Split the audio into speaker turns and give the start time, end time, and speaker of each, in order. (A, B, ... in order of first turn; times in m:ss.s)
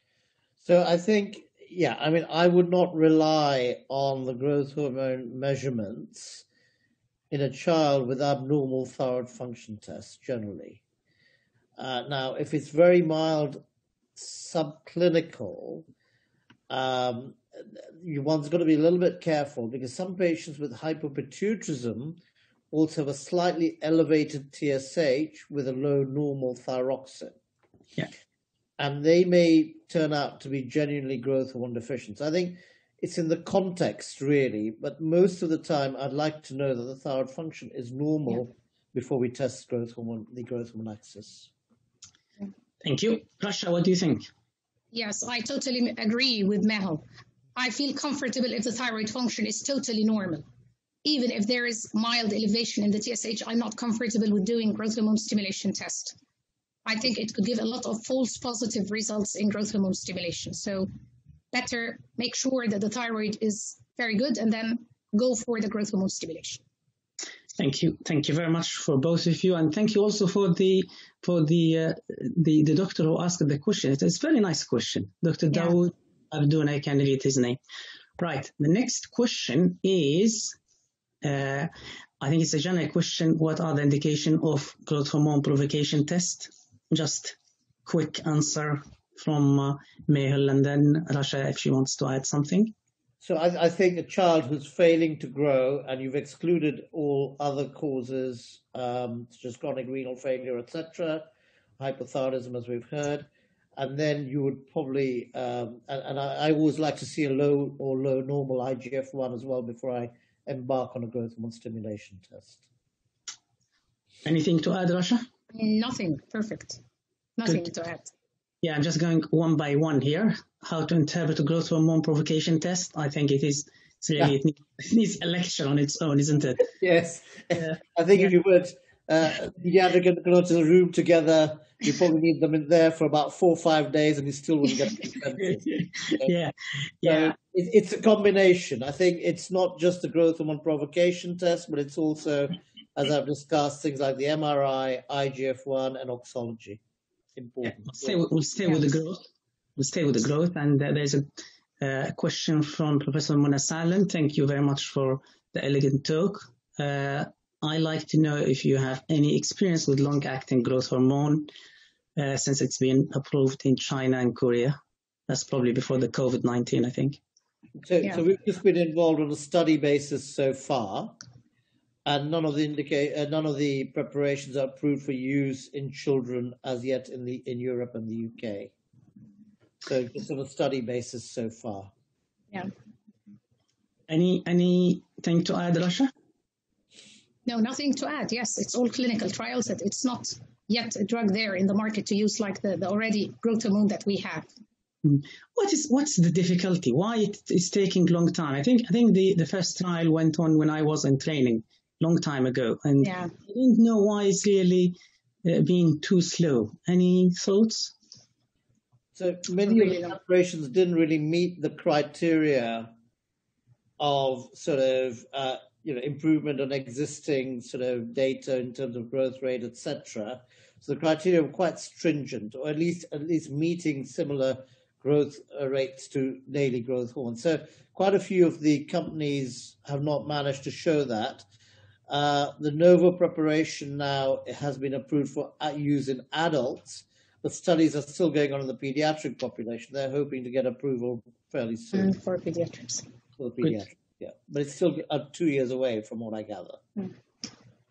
0:00.6-0:06.4 A
0:07.3-0:10.8 A
0:11.8-0:13.6 A
0:14.2-0:15.9 A
0:16.7-0:22.2 A
0:22.7-0:27.4 A
0:28.8-0:41.5 A
0:42.8-0:44.3 B
0:44.9-0:47.0 C
0:47.6-0:50.4 C
0:51.0-0:56.2 C
0:56.9-1:00.9 C
1:01.5-1:06.6 C
1:07.6-1:17.6 B
1:18.2-1:20.6 B
1:21.2-1:32.7 B
1:33.2-1:41.2 A
1:41.8-1:52.6 A
1:54.2-1:55.3 B
1:55.5-1:56.8 C
1:57.4-1:58.1 C
1:58.6-2:06.7 B
2:06.8-2:16.3 A
2:15.7-2:17.4 B
2:17.0-2:26.8 A
2:27.4-2:28.2 A
2:27.6-2:29.3 B
2:29.8-2:31.3 B
2:31.8-2:41.5 B
2:42.2-2:44.8 B
2:45.3-2:47.2 B
2:47.8-2:51.2 A
2:52.1-2:58.7 A
2:59.8-3:01.9 A
3:04.1-3:06.1 B
3:07.5-3:14.5 C
3:15.0-3:27.9 B
3:23.0-3:23.3 C
3:29.2-3:32.9 A
3:29.7-3:30.2 C
3:34.0-3:51.4 A
3:52.1-4:02.2 A
4:01.9-4:03.1 C
4:03.4-4:06.8 A